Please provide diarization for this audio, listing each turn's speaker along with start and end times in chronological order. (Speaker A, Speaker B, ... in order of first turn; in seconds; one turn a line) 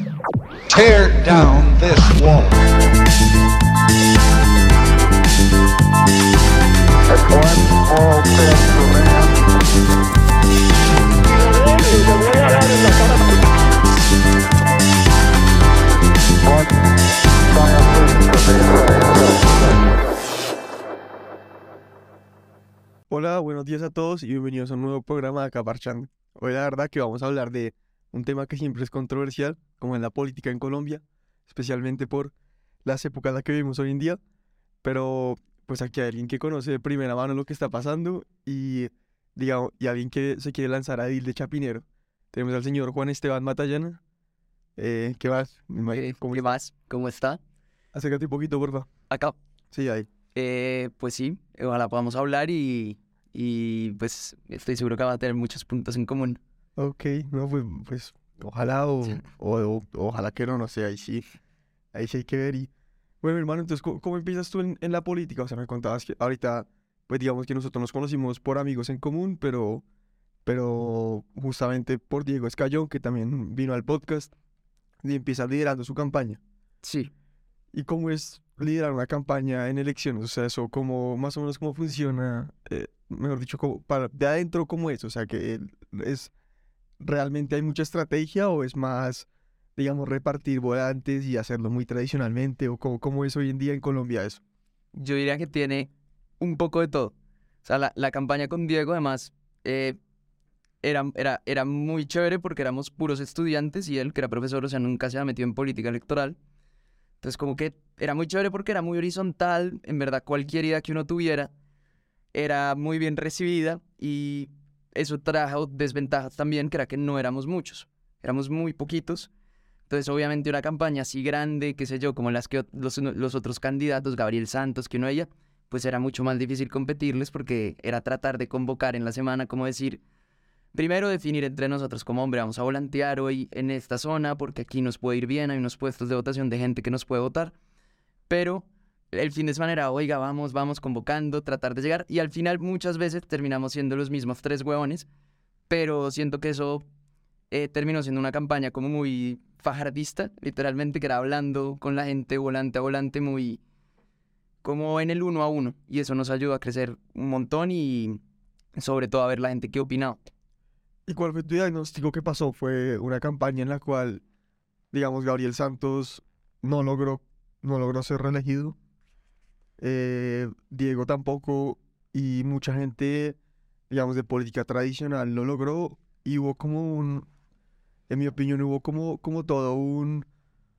Speaker A: 0.7-2.6
Speaker A: 8.1-8.7
Speaker B: 23.1-32.3
Speaker B: 32.9-34.2
Speaker B: 34.8-44.0
Speaker B: 44.8-46.5
Speaker C: 45.9-47.4
Speaker B: 47.9-48.9
Speaker C: 49.1-49.4
Speaker B: 49.7-50.1
Speaker C: 50.4-56.4
Speaker B: 56.8-61.3
Speaker B: 61.9-62.7
Speaker B: 63.2-69.8
Speaker B: 70.5-74.3
Speaker B: 75.0-76.4
Speaker C: 76.8-77.1
Speaker B: 77.7-86.3
Speaker B: 87.0-94.4
Speaker C: 94.9-100.0
Speaker C: 100.8-106.4
Speaker C: 107.2-111.5
Speaker C: 112.3-119.3
Speaker C: 119.9-130.0
Speaker C: 130.7-137.5
Speaker C: 138.3-145.1
Speaker C: 145.7-146.8
Speaker C: 147.5-153.6
Speaker C: 154.6-158.2
Speaker C: 158.8-160.2
Speaker B: 161.1-164.2
Speaker B: 164.9-168.8
Speaker B: 169.8-173.4
Speaker B: 173.9-177.3
Speaker B: 178.1-180.3